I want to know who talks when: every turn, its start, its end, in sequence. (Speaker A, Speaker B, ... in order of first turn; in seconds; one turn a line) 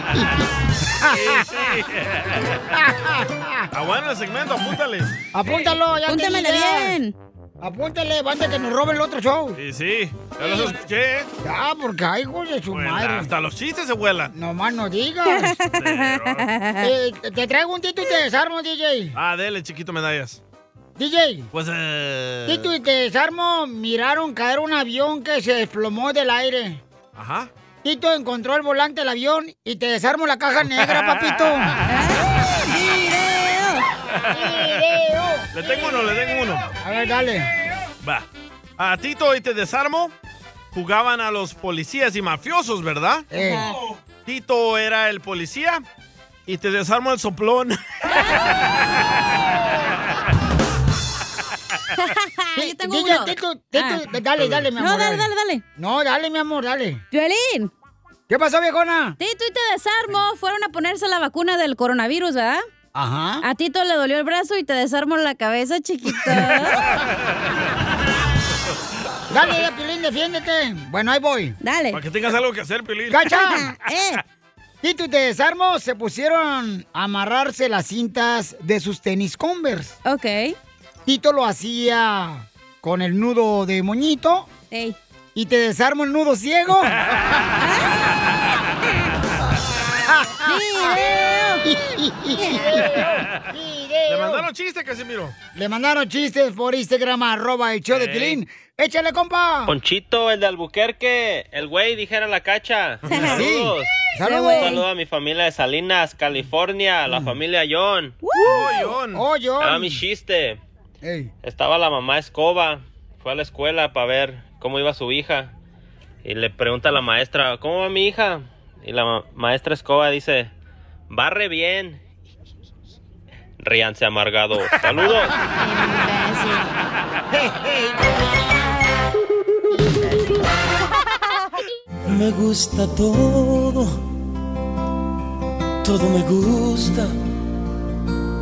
Speaker A: 1.0-1.6
Speaker B: 1.1-2.6
Speaker A: 2.7-3.7
Speaker B: 3.7-5.2
Speaker A: 5.3-7.0
Speaker C: 6.1-7.1
Speaker A: 7.6-9.6
Speaker B: 9.6-11.3
Speaker A: 11.4-13.3
Speaker B: 12.7-14.3
Speaker A: 14.3-15.6
Speaker C: 15.3-16.9
Speaker B: 15.8-16.5
Speaker A: 16.8-19.1
Speaker B: 19.1-20.4
Speaker A: 21.0-21.5
Speaker B: 21.5-22.7
Speaker A: 22.5-26.8
Speaker B: 27.2-27.5
Speaker A: 27.8-31.7
Speaker B: 30.8-31.4
Speaker C: 31.9-33.9
Speaker A: 32.7-33.1
Speaker B: 34.3-34.8
Speaker A: 34.3-36.1
Speaker B: 35.5-36.7
Speaker A: 36.8-37.5
Speaker B: 38.8-40.1
Speaker B: 40.7-43.3
Speaker A: 43.3-43.7
Speaker B: 44.3-45.8
Speaker B: 46.5-48.5
Speaker C: 52.0-54.0
Speaker A: 52.6-57.0
Speaker C: 54.8-55.6
Speaker C: 57.1-57.7
Speaker A: 58.3-59.2
Speaker C: 59.2-62.6
Speaker A: 63.0-63.4
Speaker C: 63.4-66.9
Speaker A: 69.3-71.6
Speaker C: 71.6-72.0
Speaker B: 71.9-73.4
Speaker A: 73.1-73.7
Speaker C: 73.3-74.2
Speaker A: 74.8-80.0
Speaker C: 80.0-80.5
Speaker A: 81.1-84.5
Speaker C: 84.7-85.0
Speaker A: 85.3-87.0
Speaker B: 87.1-87.4
Speaker C: 87.6-87.9
Speaker A: 90.1-94.5
Speaker C: 90.5-91.8
Speaker C: 92.4-92.9
Speaker B: 94.1-95.3
Speaker A: 95.5-99.7
Speaker B: 97.9-98.4
Speaker D: 99.7-103.9
Speaker B: 103.1-103.5
Speaker A: 103.1-104.8
Speaker C: 104.2-104.8
Speaker D: 104.6-108.2
Speaker C: 108.2-108.8
Speaker B: 108.5-109.2
Speaker A: 109.1-110.0
Speaker D: 109.6-110.6
Speaker A: 111.0-111.3
Speaker D: 111.4-115.5
Speaker D: 116.2-120.5
Speaker D: 121.1-122.0
Speaker D: 123.6-125.3
Speaker C: 125.6-126.7
Speaker A: 127.3-128.2
Speaker E: 132.1-133.9
Speaker E: 135.8-137.2